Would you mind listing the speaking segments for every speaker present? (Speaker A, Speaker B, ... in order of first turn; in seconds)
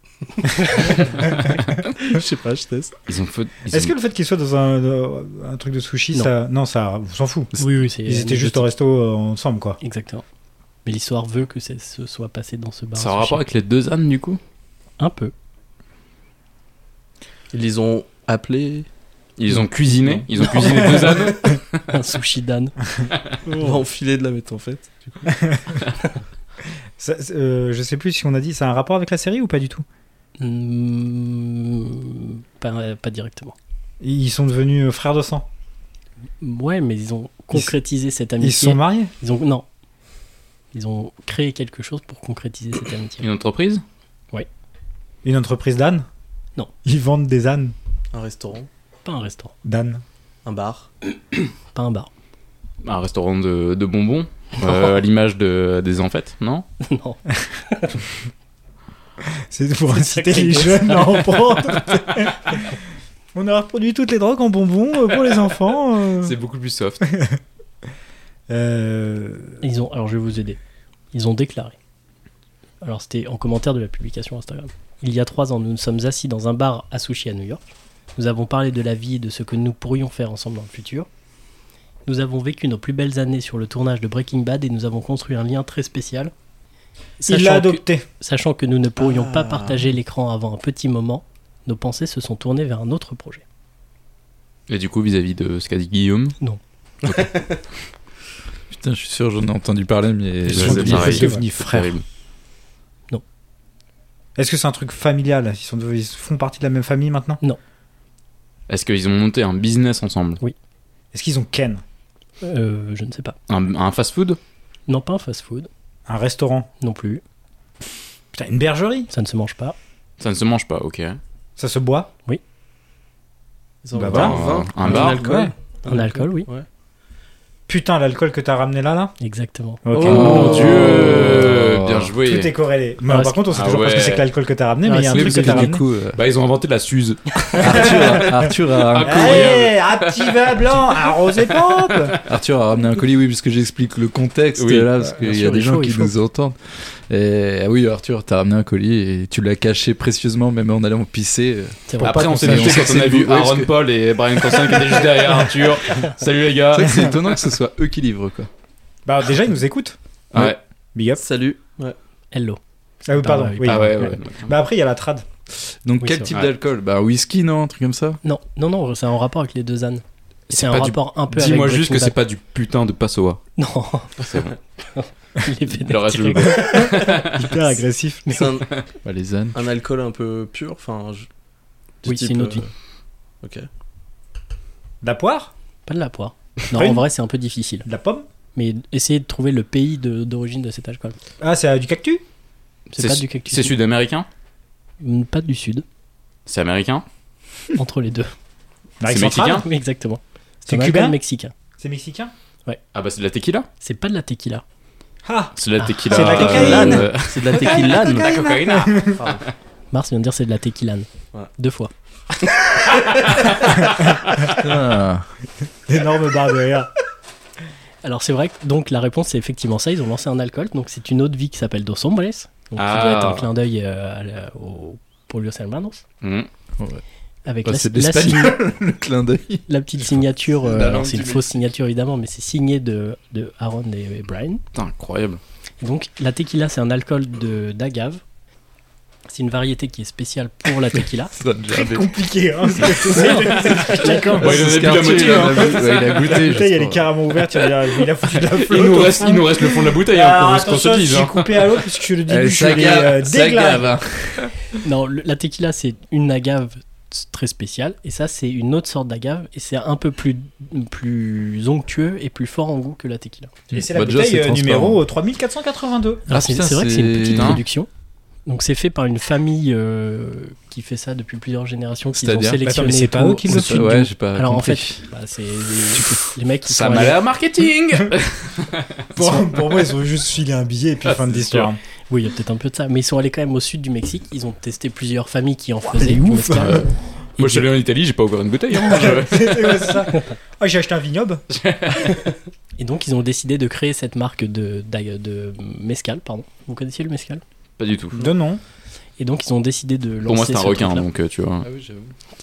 Speaker A: 0.3-1.1, 7.6-8.7, 9.8-10.2, 10.8-13.4, 15.0-15.3, 20.4-22.8, 30.4-33.5, 36.4-39.6, 40.7-43.3, 49.0-49.5, 51.7-52.1, 56.8-58.0, 59.9-61.6, 69.6-70.6, 71.1-71.8, 72.8-77.6, 78.2-81.1, 82.1-86.3, 87.2-93.4, 112.4-113.4, 114.9-115.7, 116.8-117.2, 119.1-119.8, 125.9-126.5, 129.2-129.8, 133.1-133.4, 134.8-135.7, 145.2-146.1, 151.9-152.2, 162.3-164.2, 166.0-166.3, 168.2-172.2, 173.6-174.1, 174.8-178.5, 182.1-182.7, 185.9-187.9, 188.6-191.2, 193.0-193.8, 195.0-195.8, 197.8-198.3, 199.5-201.5, 203.8-204.6, 205.8-206.2, 209.9-211.9, 218.0-226.0, 227.5-228.6, 229.7-234.6, 235.8-238.2, 239.3-241.3, 242.8-244.3, 254.8-263.5, 266.3-267.9, 268.5-277.2, 282.1-286.8, 292.8-297.4, 299.2-301.1
Speaker B: 0.8-3.0, 17.5-18.9, 20.0-20.3, 23.5-25.3, 48.1-48.7, 50.5-50.9, 89.0-89.8, 97.1-97.5, 123.8-126.7, 129.9-131.4, 161.2-162.0, 178.3-178.8, 179.5-181.3, 182.0-182.7, 183.4-183.7, 206.2-208.3, 209.2-209.4
Speaker C: 3.1-3.9, 13.0-14.4, 19.4-21.6, 43.2-43.8, 52.8-56.7, 61.9-62.3, 66.2-67.1, 94.7-96.4, 100.5-102.0, 108.7-110.4, 113.5-114.4, 120.2-121.2, 124.1-125.2, 130.1-132.5, 133.5-134.3, 136.2-137.9, 138.9-140.6, 141.4-142.2, 144.6-144.9, 152.0-157.2, 160.3-160.6, 163.6-164.6, 170.5-173.4, 174.2-174.6, 175.8-177.3, 192.9-194.3, 196.5-197.1, 199.1-199.7, 202.9-203.7, 205.6-209.5, 212.9-214.5, 222.8-223.5, 226.2-226.5, 234.7-235.4, 244.4-246.2, 248.5-251.8, 267.3-267.6, 276.7-279.1, 281.1-281.7, 286.6-290.1, 291.5-292.2, 297.8-298.2, 300.2-301.7
Speaker D: 3.7-9.8, 21.0-21.5, 25.3-25.8, 27.0-29.9, 34.0-35.5, 38.4-39.1, 45.2-46.1, 46.8-47.8, 49.6-50.0, 59.5-62.6, 63.3-66.3, 67.0-67.4, 68.5-69.6, 87.3-88.1, 100.5-102.0, 104.4-107.4, 111.1-111.8, 116.1-116.7, 118.3-119.1, 121.6-122.1, 123.9-125.5, 127.7-129.1, 129.8-131.3, 132.2-135.8, 137.8-138.5, 139.0-142.2, 152.0-153.0, 159.1-160.0, 160.9-161.2, 163.1-165.3, 176.7-178.2, 185.0-185.5, 186.7-187.0, 187.8-188.3, 191.4-192.2, 199.0-199.7, 200.7-201.2, 201.8-202.3, 205.2-205.5, 206.1-209.2, 215.9-216.9, 241.7-253.9, 263.7-266.2, 272.6-273.8, 279.1-281.8, 285.9-286.9, 288.8-291.4, 298.2-298.6
Speaker E: 98.7-101.4, 130.1-132.1, 135.1-136.2, 137.6-139.4, 142.3-153.7, 156.7-158.5, 165.8-168.2, 179.0-179.6, 214.6-215.3, 227.7-231.6, 241.3-242.1, 244.4-247.1, 252.3-254.4, 263.7-265.0, 266.3-267.6, 272.2-272.6, 273.5-275.1, 301.6-302.1